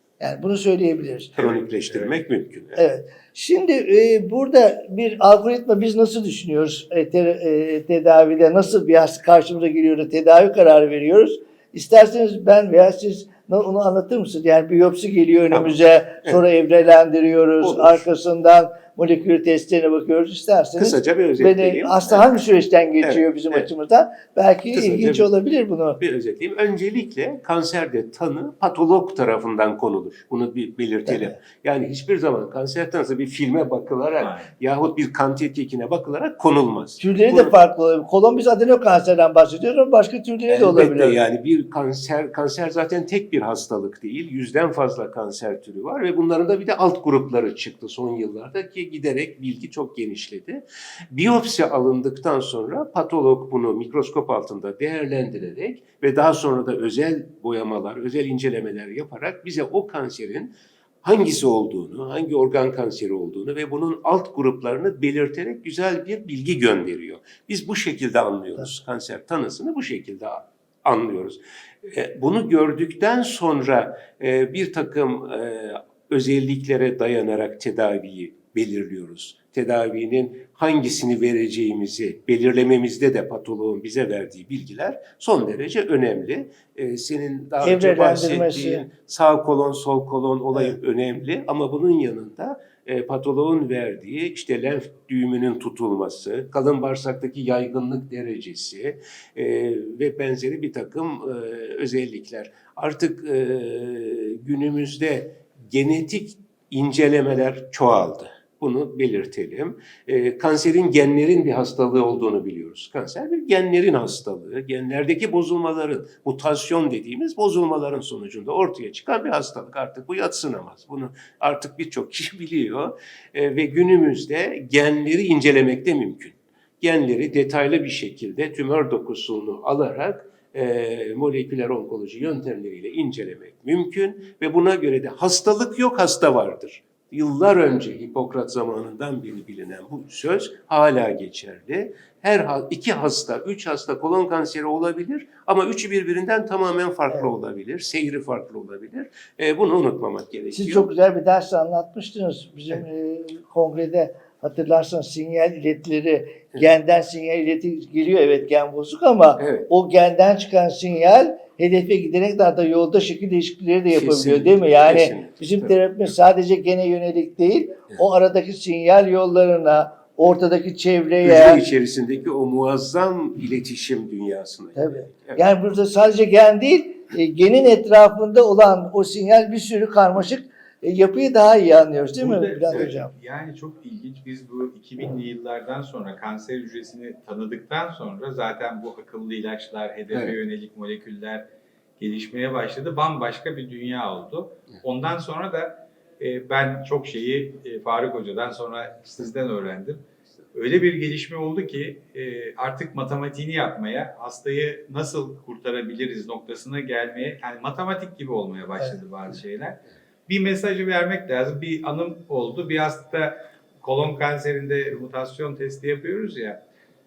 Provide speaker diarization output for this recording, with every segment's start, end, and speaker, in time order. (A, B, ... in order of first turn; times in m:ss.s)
0:00.2-0:01.4 A
0:01.4-0:02.8 B
0:02.7-0:26.0 A
0:17.6-0:18.0 B
0:20.8-0:22.4 B
0:23.0-0:23.7 B
0:24.7-0:25.3 B
0:26.0-0:37.5 B
0:31.0-0:31.4 A
0:34.2-0:34.5 C
0:37.0-0:41.2 A
0:40.5-2:30.9 B
1:27.6-1:28.8 A
2:30.5-2:51.6 A
2:39.4-2:39.7 B
2:43.9-2:45.7 B
2:51.2-2:55.4 B
2:54.8-3:03.1 A
3:02.2-3:11.4 C
3:12.0-3:36.6 C